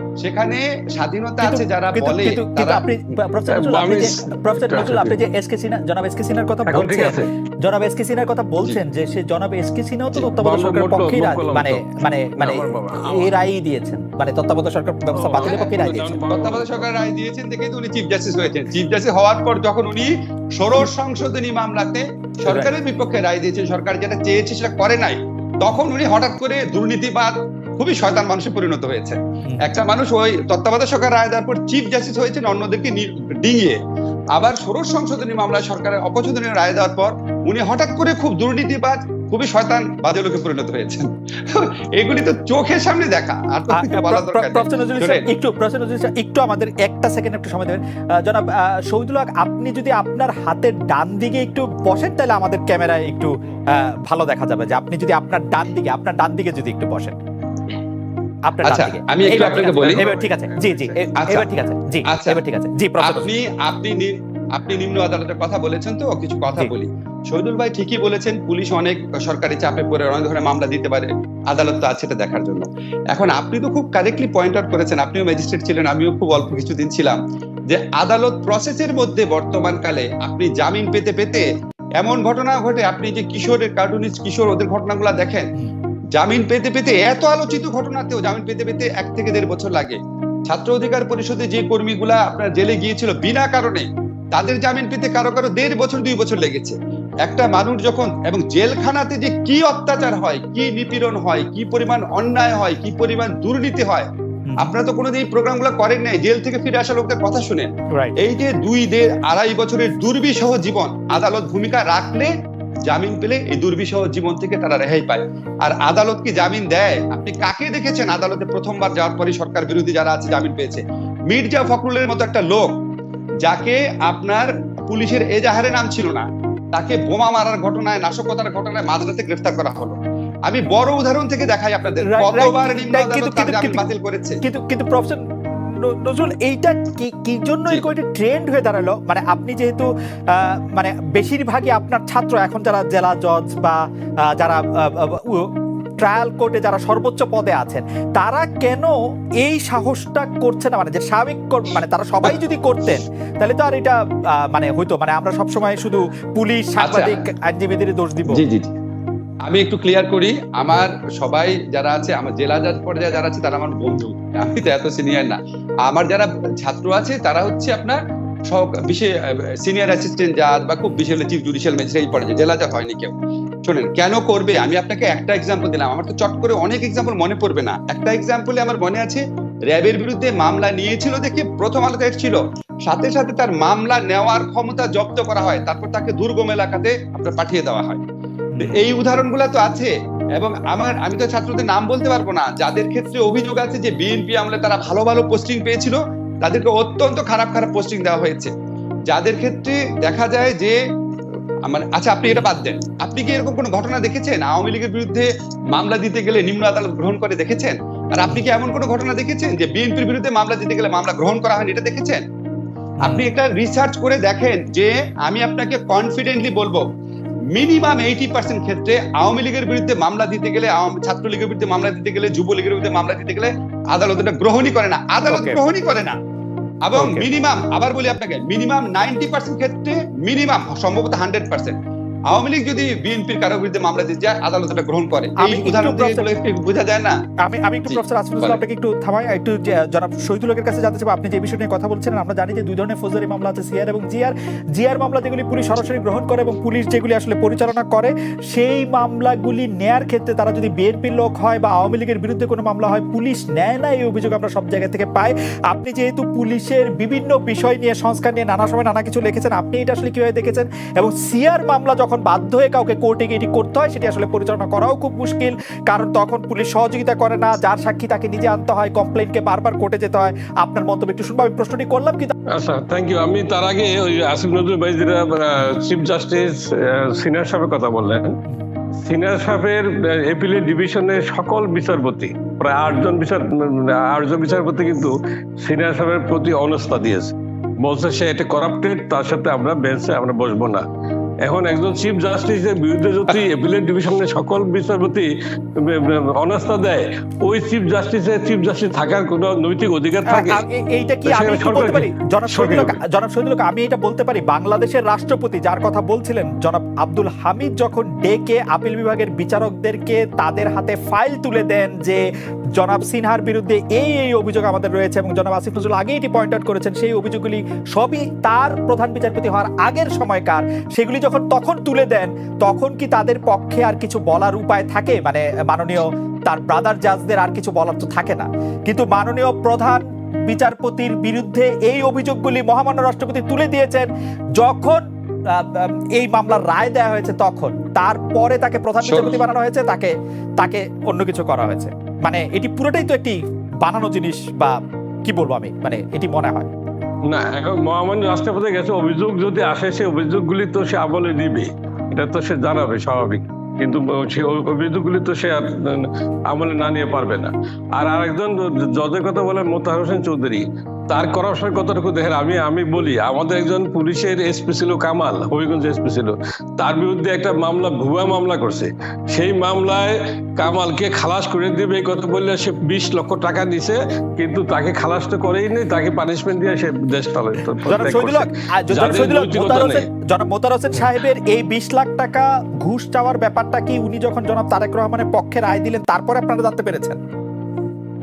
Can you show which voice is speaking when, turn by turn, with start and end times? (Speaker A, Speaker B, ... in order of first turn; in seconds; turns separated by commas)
Speaker A: 0.2-2.8, Speaker B: 1.4-16.2, Speaker C: 3.5-5.2, Speaker C: 6.7-7.3, Speaker C: 10.2-13.3, Speaker C: 15.1-16.9, Speaker A: 16.3-33.8, Speaker A: 34.3-45.3, Speaker B: 43.7-57.2, Speaker B: 58.5-63.3, Speaker A: 58.7-60.1, Speaker A: 61.1-61.5, Speaker A: 62.1-62.4, Speaker A: 63.0-81.5, Speaker A: 82.0-85.5, Speaker A: 86.1-112.3, Speaker B: 107.9-108.2, Speaker A: 112.9-122.8, Speaker A: 123.4-134.4, Speaker B: 132.1-133.8, Speaker B: 134.4-143.8, Speaker B: 144.4-158.4, Speaker A: 156.8-157.2, Speaker A: 158.3-158.7, Speaker A: 159.5-188.0, Speaker B: 170.8-171.1, Speaker A: 188.6-198.5, Speaker A: 199.1-200.8, Speaker A: 201.7-212.2, Speaker B: 213.0-213.3, Speaker A: 213.1-216.9, Speaker A: 217.5-226.2, Speaker B: 225.3-225.6, Speaker A: 226.8-231.8, Speaker B: 226.9-227.3, Speaker A: 232.3-237.2, Speaker B: 235.4-236.3, Speaker B: 237.5-272.3, Speaker A: 237.9-238.6, Speaker C: 272.5-278.4, Speaker C: 279.0-290.8, Speaker C: 291.4-300.6, Speaker B: 300.3-312.2, Speaker C: 301.3-303.0, Speaker B: 312.8-346.7, Speaker A: 339.1-339.4, Speaker C: 347.3-380.1, Speaker B: 377.9-387.2